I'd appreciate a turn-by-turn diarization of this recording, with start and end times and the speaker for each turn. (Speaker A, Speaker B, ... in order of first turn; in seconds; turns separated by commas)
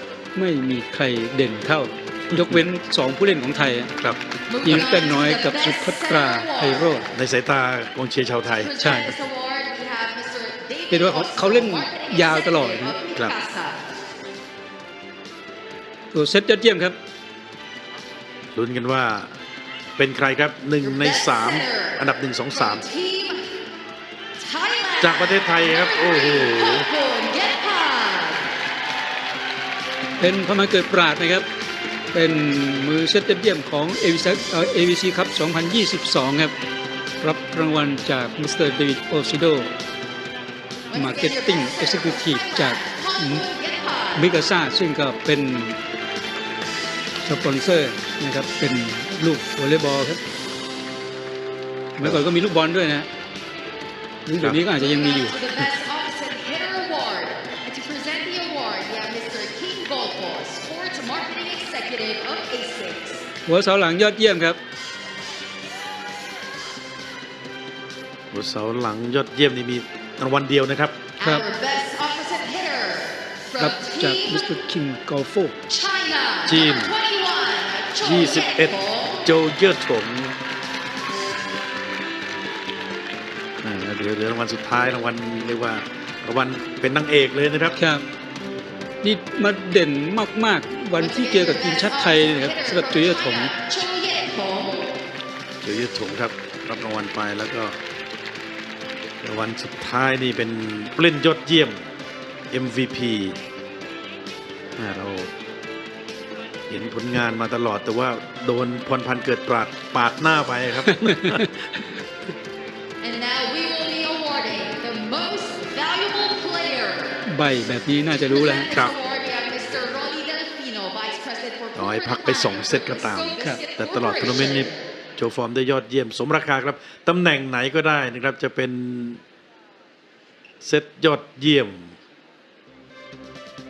Speaker A: 0.4-3.9, Speaker B: 2.3-2.6, Speaker C: 4.5-7.0, Speaker A: 5.0-7.1, Speaker B: 7.1-8.8, Speaker C: 8.6-13.8, Speaker A: 8.8-9.1, Speaker A: 10.9-13.0, Speaker A: 16.1-17.0, Speaker B: 18.5-19.4, Speaker B: 20.0-22.9, Speaker C: 20.8-23.4, Speaker C: 24.4-28.5, Speaker B: 25.0-26.9, Speaker A: 30.2-31.5, Speaker A: 32.1-36.5, Speaker A: 37.2-39.7, Speaker C: 40.9-44.3, Speaker A: 41.0-43.5, Speaker A: 44.1-45.8, Speaker A: 47.2-50.2, Speaker A: 52.0-53.1, Speaker B: 52.0-52.3, Speaker A: 54.3-55.4, Speaker C: 54.7-63.2, Speaker A: 63.5-64.6, Speaker B: 68.3-71.0, Speaker C: 71.2-74.5, Speaker A: 73.6-75.6, Speaker C: 75.7-79.3, Speaker B: 76.5-77.0, Speaker B: 78.0-80.4, Speaker B: 83.6-87.8, Speaker A: 87.8-88.0, Speaker A: 89.0-93.5, Speaker C: 91.0-94.9, Speaker B: 95.6-97.8, Speaker B: 99.2-101.9, Speaker B: 102.5-103.4, Speaker B: 104.8-105.3, Speaker B: 106.7-111.7, Speaker C: 113.0-117.2, Speaker A: 117.3-118.7, Speaker C: 118.2-124.8, Speaker B: 121.8-129.2, Speaker B: 130.6-132.0